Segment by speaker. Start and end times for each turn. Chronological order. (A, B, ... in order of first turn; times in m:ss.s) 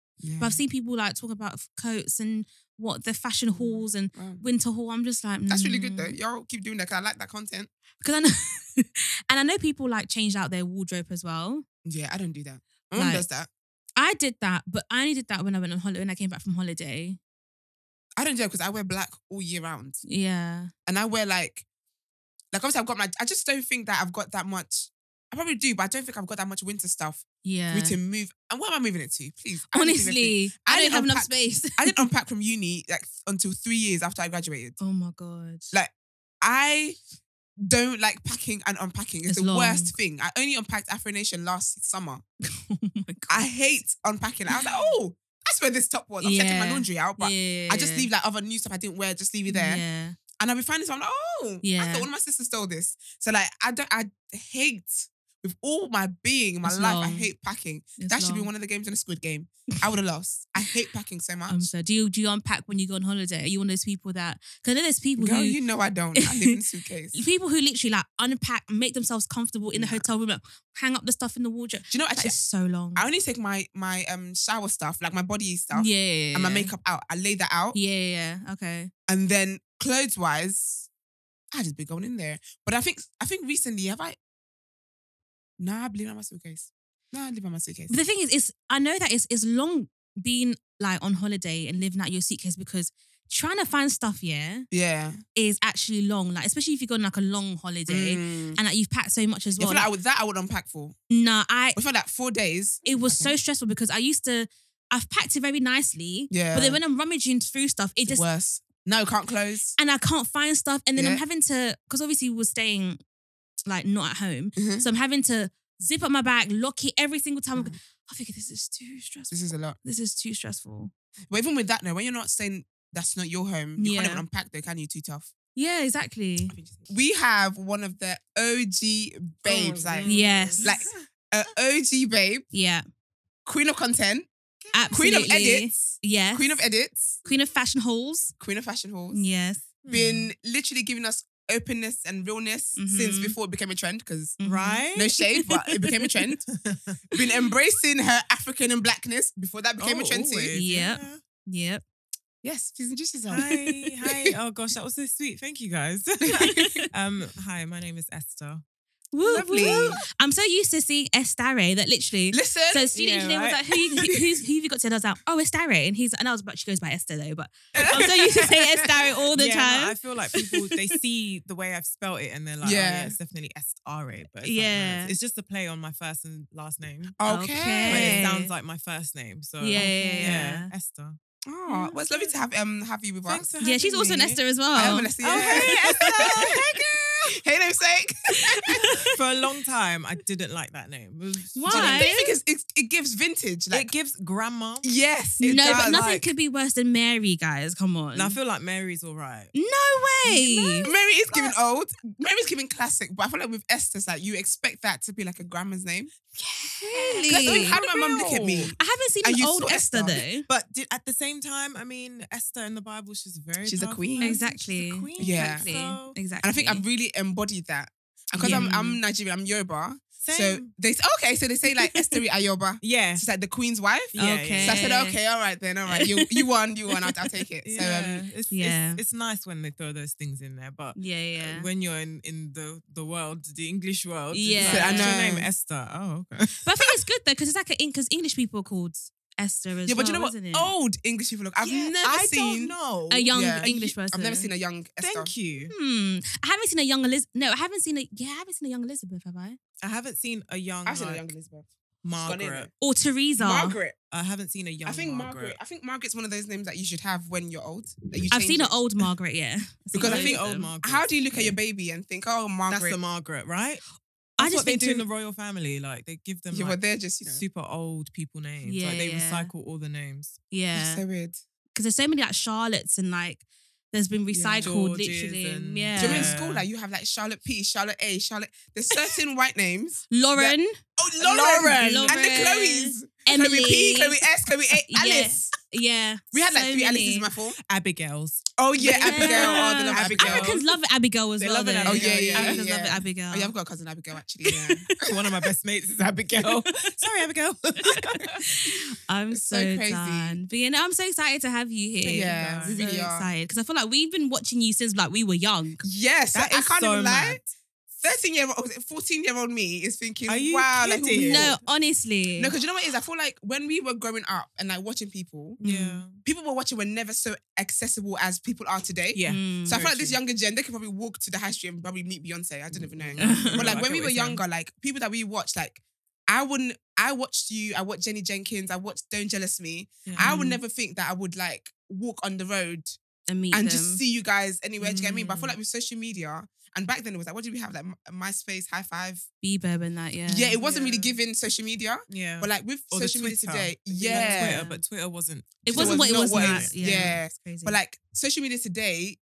0:00.2-0:00.6 A
0:00.4-0:06.1 B
0:03.5-0:04.4 A
0:05.5-0:07.7 A
0:08.0-0:11.6 B
0:11.8-0:13.5 A
0:12.9-0:13.2 B
0:14.0-0:17.2 B
0:18.2-0:20.0 A
0:20.0-0:20.7 B
0:20.9-0:21.6 A
0:22.5-0:34.8 A
0:27.4-0:28.0 B
0:29.7-0:32.0 B
0:34.8-0:35.7 B
0:35.7-0:37.0 A
0:37.6-0:42.2 A
0:39.3-0:39.9 B
0:42.5-0:43.4 B
0:43.3-0:49.8 A
0:46.2-0:48.1 B
0:49.5-0:50.2 B
0:50.4-1:01.7 A
0:51.6-0:52.1 B
0:56.6-0:57.3 B
0:58.0-0:58.5 B
1:01.5-1:05.6 B
1:05.2-1:07.2 A
1:06.2-1:06.5 B
1:07.1-1:13.0 B
1:09.7-1:10.1 A
1:11.9-1:12.4 A
1:12.9-1:17.8 A
1:15.7-1:16.7 B
1:17.7-1:18.9 B
1:19.1-1:20.9 A
1:21.5-1:24.2 A
1:25.6-1:28.0 A
1:27.9-1:34.7 B
1:34.7-1:35.2 A
1:35.3-1:39.9 B
1:37.9-1:38.6 A
1:39.6-1:41.0 A
1:41.1-1:41.8 B
1:41.7-1:43.3 A
1:42.8-1:48.2 B
1:46.3-1:46.8 A
1:48.1-1:49.8 A
1:49.8-1:53.0 B
1:51.0-1:51.2 A
1:53.6-2:00.9 B
1:54.6-1:54.8 A
1:59.3-1:59.8 A
2:01.3-2:05.3 A
2:03.8-2:04.2 B
2:05.5-2:06.5 B
2:06.5-2:10.1 A
2:09.4-2:10.9 C
2:10.0-2:10.6 B
2:10.6-2:12.5 A
2:12.5-2:12.8 B
2:13.4-2:14.3 A
2:14.7-2:16.6 B
2:14.9-2:17.2 A
2:17.2-2:18.3 B
2:18.4-2:19.2 A
2:19.1-2:19.6 B
2:19.8-2:20.3 C
2:19.9-2:24.4 A
2:22.8-2:23.3 B
2:24.4-2:24.8 B
2:24.4-2:25.1 C
2:24.9-2:26.4 A
2:26.6-2:26.9 C
2:27.1-2:30.5 A
2:29.8-2:31.2 C
2:30.5-2:31.8 B
2:32.4-2:34.3 A
2:33.3-2:38.6 C
2:36.3-2:36.6 A
2:36.4-2:36.7 B
2:39.1-2:50.0 B
2:39.3-2:40.0 A
2:39.3-2:40.0 C
2:42.3-2:42.9 A
2:42.9-2:43.6 C
2:47.8-2:48.0 C
2:47.8-2:48.6 A
2:49.3-2:57.2 C
2:52.6-2:53.2 A
2:54.4-2:55.2 B
2:57.2-2:58.2 A
2:57.2-2:58.5 B
2:57.8-3:01.2 C
2:59.6-3:00.7 B
2:59.8-3:00.5 A
3:01.4-3:03.5 A
3:01.7-3:01.9 B
3:03.2-3:04.4 C
3:03.6-3:06.4 B
3:04.7-3:08.8 A
3:05.2-3:06.8 C
3:08.6-3:09.1 B
3:09.0-3:12.1 C
3:11.6-3:12.3 B
3:11.7-3:13.9 A
3:13.7-3:14.9 C
3:14.8-3:16.2 A
3:15.4-3:18.4 B
3:15.4-3:16.2 C
3:18.1-3:19.5 C
3:19.5-3:20.9 B
3:20.3-3:20.9 C
3:20.8-3:26.1 A
3:26.4-3:28.7 C
3:26.9-3:30.2 A
3:26.9-3:30.4 B
3:30.5-3:36.2 C
3:33.6-3:34.4 A
3:34.2-3:36.8 B
3:35.2-3:35.6 A
3:36.4-3:48.2 A
3:38.4-3:39.0 B
3:38.4-3:38.8 C
3:40.2-3:40.7 C
3:42.8-3:43.3 C
3:44.1-3:44.9 C
3:44.1-3:45.2 B
3:45.9-3:46.4 B
3:47.6-3:56.9 C
3:48.5-3:49.0 B
3:51.0-3:51.7 B
3:54.3-3:55.2 B
3:54.6-3:55.5 A
3:56.6-4:00.7 B
3:59.9-4:02.7 A
4:01.6-4:03.8 C
4:03.1-4:04.5 B
4:03.3-4:05.3 A
4:05.0-4:05.7 C
4:05.7-4:09.6 B
4:09.8-4:11.3 C
4:10.8-4:12.7 A
4:12.0-4:12.7 C
4:12.8-4:13.8 B
4:13.4-4:14.0 A
4:14.1-4:15.6 C
4:14.8-4:18.8 A
4:18.3-4:20.7 B
4:19.9-4:23.0 A
4:20.0-4:21.6 C
4:22.7-4:23.8 C
4:24.4-4:25.0 B
4:24.4-4:30.4 C
4:26.5-4:27.4 A
4:28.6-4:29.5 B
4:30.5-4:31.0 B
4:30.7-4:31.4 A
4:31.7-4:36.3 B
4:34.3-4:34.8 A
4:34.6-4:36.6 C
4:36.0-4:45.5 A
4:40.1-4:40.8 B
4:41.2-4:42.2 C
4:41.7-4:44.2 B
4:44.9-4:47.3 B
4:46.3-4:47.6 A
4:47.7-4:50.7 C
4:48.6-4:50.6 A
4:48.8-4:53.5 B
4:51.4-4:52.6 C
4:51.8-4:54.9 A
4:55.0-4:58.4 C
4:57.8-5:05.8 B
4:59.3-5:00.4 A
5:02.0-5:03.3 A
5:02.1-5:02.8 C
5:05.8-5:07.4 A
5:06.3-5:07.4 C
5:08.0-5:11.6 A
5:10.3-5:11.6 C
5:11.2-5:12.5 B
5:12.4-5:33.0 A
5:15.6-5:16.0 B
5:15.6-5:16.2 C
5:19.1-5:20.2 C
5:19.2-5:19.8 B
5:22.7-5:24.4 C
5:23.2-5:23.7 B
5:30.0-5:30.3 C
5:30.2-5:30.6 B
5:33.3-5:34.0 B
5:33.5-5:39.2 A
5:34.8-5:35.5 C
5:39.4-5:40.6 B
5:40.3-5:44.6 A
5:40.6-5:41.2 C
5:42.1-5:47.1 C
5:44.0-5:44.8 B
5:45.6-5:47.8 B
5:45.6-5:49.2 A